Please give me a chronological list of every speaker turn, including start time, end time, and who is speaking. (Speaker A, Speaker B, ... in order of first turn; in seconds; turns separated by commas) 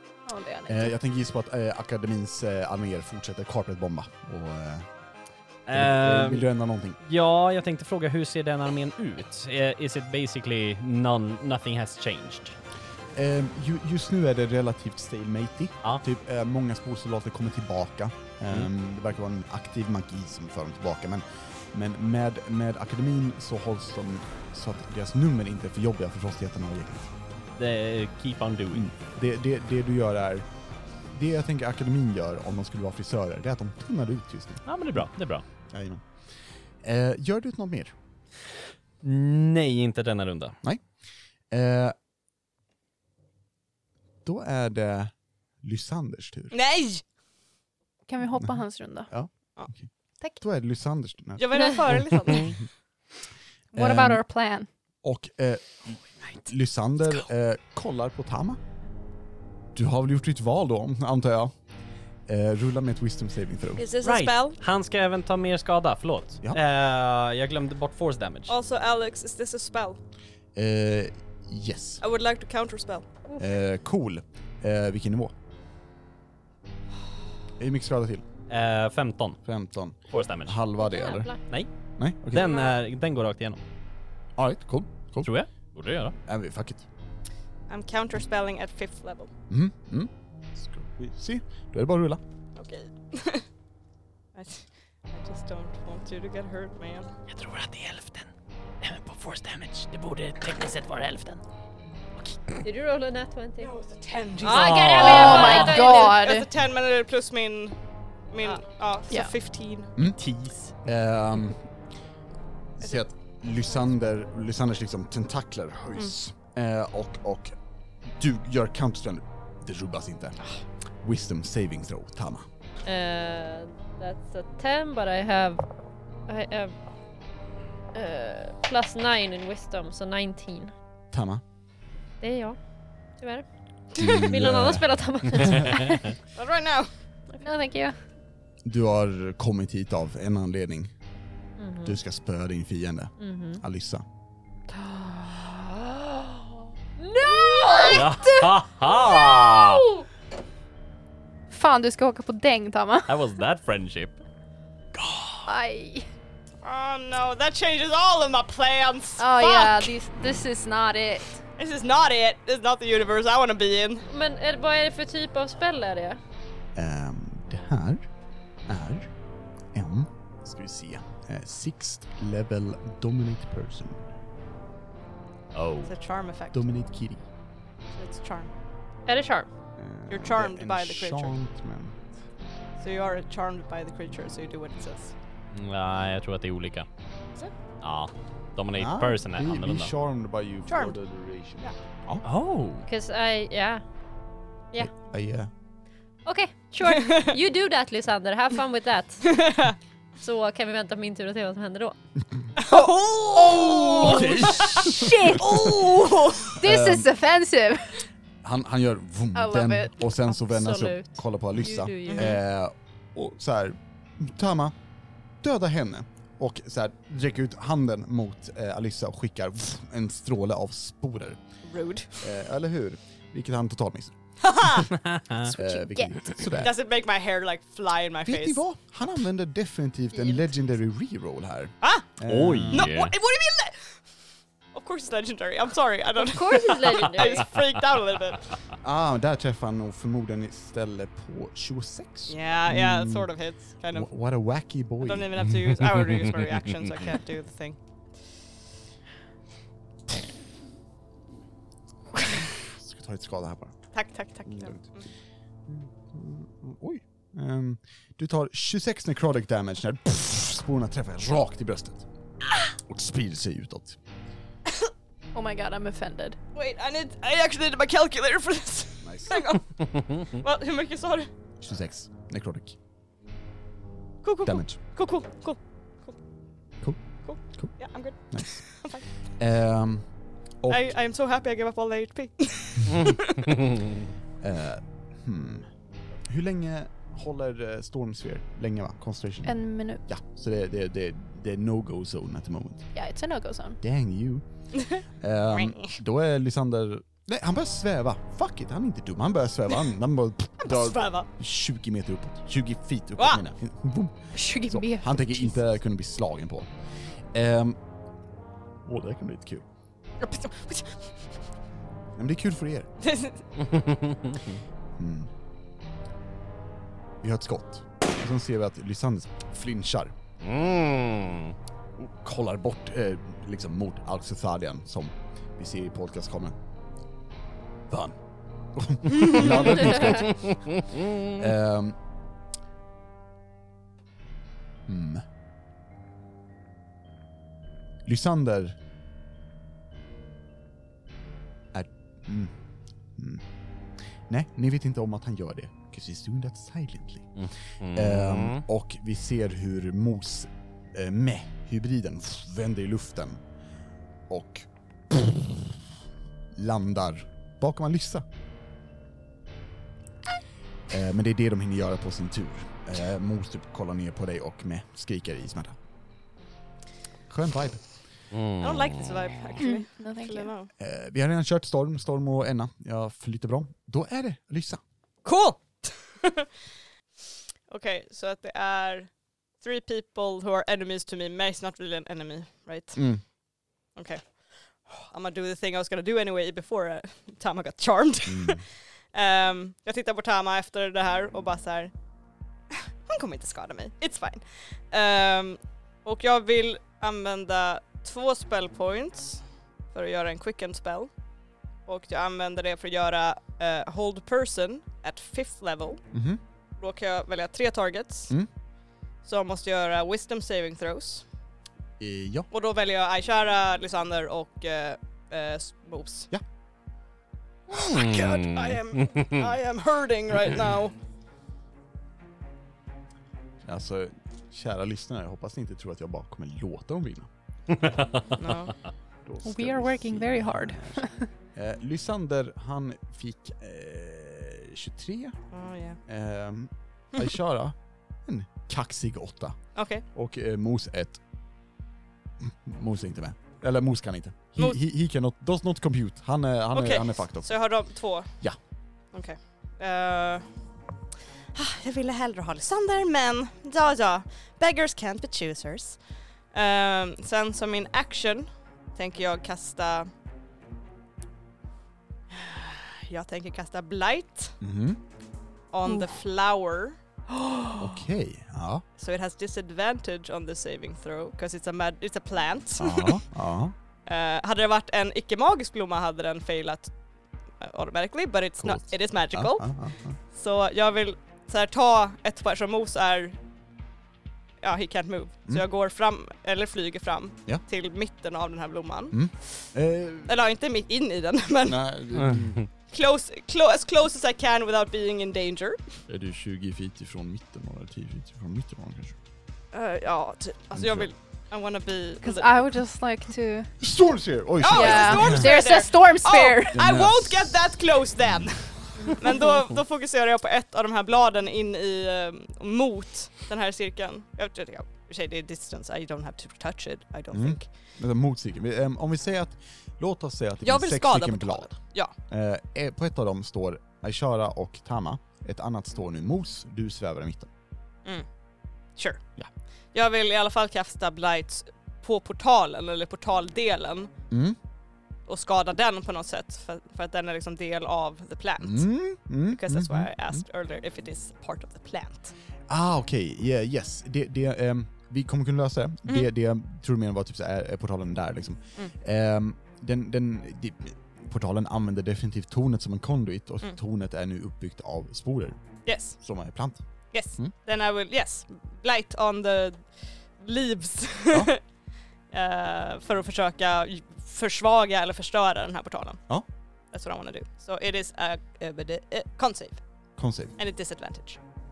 Speaker A: 0.2-0.9, Speaker B: 0.7-4.9, Speaker C: 5.7-6.5, Speaker B: 5.7-7.0, Speaker C: 7.0-12.6, Speaker B: 13.1-27.1, Speaker C: 27.6-28.9, Speaker B: 28.7-30.5, Speaker B: 31.1-35.1, Speaker C: 34.6-35.4, Speaker B: 35.7-36.2, Speaker B: 36.8-37.9, Speaker C: 39.0-40.5, Speaker B: 41.5-41.9, Speaker B: 44.2-46.5, Speaker D: 46.5-47.0, Speaker A: 48.1-49.1, Speaker B: 48.4-52.5, Speaker D: 51.4-52.6, Speaker A: 53.7-54.7, Speaker B: 53.7-54.2, Speaker B: 55.0-58.6, Speaker B: 59.7-61.5, Speaker B: 62.3-63.8, Speaker D: 63.8-64.6, Speaker C: 64.0-68.6, Speaker D: 68.5-70.0, Speaker B: 70.5-72.0, Speaker D: 72.0-73.0, Speaker B: 73.4-75.3, Speaker B: 77.6-78.2, Speaker C: 78.5-79.4, Speaker B: 79.4-81.3, Speaker C: 80.1-80.6, Speaker E: 80.8-81.4, Speaker C: 81.4-81.7, Speaker B: 82.0-82.5, Speaker C: 82.2-83.6, Speaker D: 82.3-82.7, Speaker B: 84.4-85.3, Speaker C: 85.2-86.2, Speaker B: 86.2-86.8, Speaker D: 87.7-89.3, Speaker B: 89.5-92.2, Speaker D: 92.5-93.5, Speaker D: 94.3-97.1, Speaker C: 97.3-98.3, Speaker C: 98.8-101.4, Speaker E: 102.6-103.8, Speaker D: 103.6-107.8, Speaker E: 104.4-106.2, Speaker C: 104.5-105.8, Speaker A: 104.9-106.5, Speaker D: 108.3-109.9, Speaker C: 110.0-110.7, Speaker B: 110.8-111.6, Speaker B: 112.8-117.5, Speaker B: 118.1-120.4, Speaker B: 121.0-122.5, Speaker E: 122.8-125.6, Speaker E: 126.3-126.7, Speaker E: 127.9-130.7, Speaker B: 131.1-131.4, Speaker E: 132.2-132.6, Speaker E: 133.2-136.0, Speaker B: 133.9-135.6, Speaker C: 135.5-135.9, Speaker D: 136.3-136.9, Speaker A: 137.4-137.9, Speaker B: 138.6-140.9, Speaker E: 141.6-142.0, Speaker B: 141.8-144.0, Speaker E: 143.2-143.6, Speaker A: 144.7-146.4, Speaker E: 147.0-148.2, Speaker A: 147.2-148.4, Speaker C: 147.9-149.8, Speaker E: 149.4-149.7, Speaker A: 151.5-153.3, Speaker C: 153.1-154.2, Speaker C: 154.9-155.5, Speaker A: 155.4-156.1, Speaker D: 156.6-159.9, Speaker A: 159.2-161.4, Speaker D: 161.6-164.1, Speaker E: 164.1-166.2, Speaker B: 166.7-168.1, Speaker B: 168.7-169.1, Speaker B: 169.7-174.1, Speaker C: 175.5-175.9, Speaker D: 175.8-176.6, Speaker B: 176.5-177.2, Speaker D: 177.9-178.5, Speaker E: 179.1-179.5, Speaker B: 179.8-182.0, Speaker D: 180.1-181.3, Speaker D: 182.8-185.1, Speaker C: 185.5-186.9, Speaker C: 187.8-189.9, Speaker B: 188.8-192.2, Speaker D: 190.7-191.0, Speaker C: 192.2-192.8, Speaker E: 192.9-193.8, Speaker B: 194.8-195.5, Speaker E: 196.2-199.4, Speaker D: 196.8-197.3, Speaker D: 199.3-199.8, Speaker E: 200.2-202.0, Speaker D: 202.6-206.5, Speaker A: 202.7-208.1, Speaker B: 204.0-205.9, Speaker B: 206.5-207.1, Speaker B: 208.4-214.7, Speaker A: 209.3-210.1, Speaker E: 210.3-212.4, Speaker D: 212.1-212.4, Speaker B: 215.4-221.4, Speaker D: 221.7-222.2, Speaker B: 222.2-224.2, Speaker D: 224.4-224.9, Speaker C: 224.9-225.5, Speaker A: 225.4-226.4, Speaker B: 225.5-226.8, Speaker D: 226.6-228.6, Speaker B: 228.2-232.9, Speaker E: 230.1-230.4, Speaker D: 231.8-232.1, Speaker C: 232.2-233.1, Speaker D: 232.7-234.0, Speaker D: 234.7-238.6, Speaker E: 236.2-237.4, Speaker B: 238.8-243.3, Speaker D: 242.3-244.1, Speaker B: 243.9-245.3, Speaker D: 245.0-247.8, Speaker B: 252.7-253.8, Speaker D: 253.9-255.0, Speaker B: 254.4-254.9, Speaker B: 255.7-262.1, Speaker B: 262.7-264.0, Speaker A: 265.3-266.4, Speaker D: 266.5-271.3, Speaker B: 269.0-269.4, Speaker B: 271.6-272.8, Speaker D: 274.2-276.2, Speaker B: 274.4-274.8, Speaker B: 276.8-278.6, Speaker D: 277.2-279.0, Speaker B: 279.4-280.1, Speaker B: 280.6-280.9, Speaker D: 280.7-283.5, Speaker C: 282.9-284.0, Speaker B: 284.4-285.7, Speaker B: 286.3-292.9, Speaker A: 289.4-290.0, Speaker A: 292.9-293.8, Speaker B: 293.8-294.4, Speaker D: 294.7-296.0, Speaker B: 295.2-306.7, Speaker D: 300.6-301.3, Speaker D: 303.2-303.4, Speaker A: 304.3-305.6, Speaker B: 307.3-307.8, Speaker B: 308.8-309.6, Speaker D: 310.2-311.1, Speaker B: 312.1-312.9, Speaker D: 313.0-313.4, Speaker C: 313.7-314.5, Speaker B: 315.0-315.3, Speaker B: 317.2-320.1, Speaker C: 320.4-321.5, Speaker B: 322.0-326.6, Speaker B: 327.9-328.2, Speaker B: 328.7-331.9, Speaker C: 330.5-331.3, Speaker B: 334.9-335.2, Speaker B: 338.1-338.8, Speaker B: 341.7-342.5, Speaker B: 343.1-343.4, Speaker B: 344.3-353.4, Speaker C: 347.4-348.6, Speaker B: 354.3-355.8, Speaker B: 356.5-358.2, Speaker B: 360.9-365.8, Speaker B: 367.3-367.8, Speaker C: 368.3-369.1, Speaker D: 368.6-370.7, Speaker A: 369.6-370.5, Speaker B: 370.8-374.8, Speaker D: 375.2-376.5, Speaker D: 377.7-383.0, Speaker B: 382.9-383.2, Speaker D: 383.9-391.9, Speaker B: 388.2-388.6, Speaker D: 392.7-401.1, Speaker D: 401.9-406.1, Speaker B: 406.1-406.4, Speaker D: 406.8-408.3, Speaker D: 409.2-411.2, Speaker B: 412.0-412.5, Speaker D: 412.5-416.3, Speaker D: 417.7-420.9, Speaker C: 417.8-419.4, Speaker B: 423.6-427.3, Speaker C: 427.8-428.2, Speaker D: 428.3-428.8, Speaker B: 429.2-435.4, Speaker A: 429.4-431.3, Speaker D: 435.5-436.0, Speaker B: 436.1-441.2, Speaker D: 439.7-440.0, Speaker B: 442.4-447.6, Speaker D: 446.7-448.5, Speaker D: 449.1-450.5, Speaker D: 451.5-460.1, Speaker D: 462.3-464.6, Speaker B: 464.6-465.0, Speaker D: 465.7-467.0, Speaker A: 465.9-466.1, Speaker A: 467.3-467.9, Speaker B: 467.8-468.8, Speaker D: 469.0-473.2, Speaker B: 472.8-473.7, Speaker D: 474.1-476.9, Speaker D: 477.6-483.4, Speaker B: 478.6-480.2, Speaker D: 484.6-489.7, Speaker B: 489.1-490.3, Speaker D: 490.3-491.8, Speaker B: 491.6-492.6, Speaker C: 492.1-492.6, Speaker D: 492.9-496.0, Speaker B: 496.1-499.1, Speaker D: 499.7-502.5, Speaker B: 500.7-501.1, Speaker A: 502.2-503.8, Speaker B: 503.8-505.5, Speaker D: 504.6-517.7, Speaker A: 504.7-506.8, Speaker B: 506.7-507.6, Speaker B: 517.3-527.5, Speaker D: 520.6-522.1, Speaker D: 529.0-529.3, Speaker D: 529.9-534.1, Speaker B: 534.3-534.6, Speaker D: 535.3-542.3, Speaker B: 538.6-540.4, Speaker B: 542.7-555.6, Speaker D: 555.9-556.2, Speaker B: 556.1-556.8, Speaker D: 557.1-561.6, Speaker D: 562.3-566.3, Speaker D: 566.9-569.8, Speaker B: 570.2-570.5, Speaker D: 570.6-571.4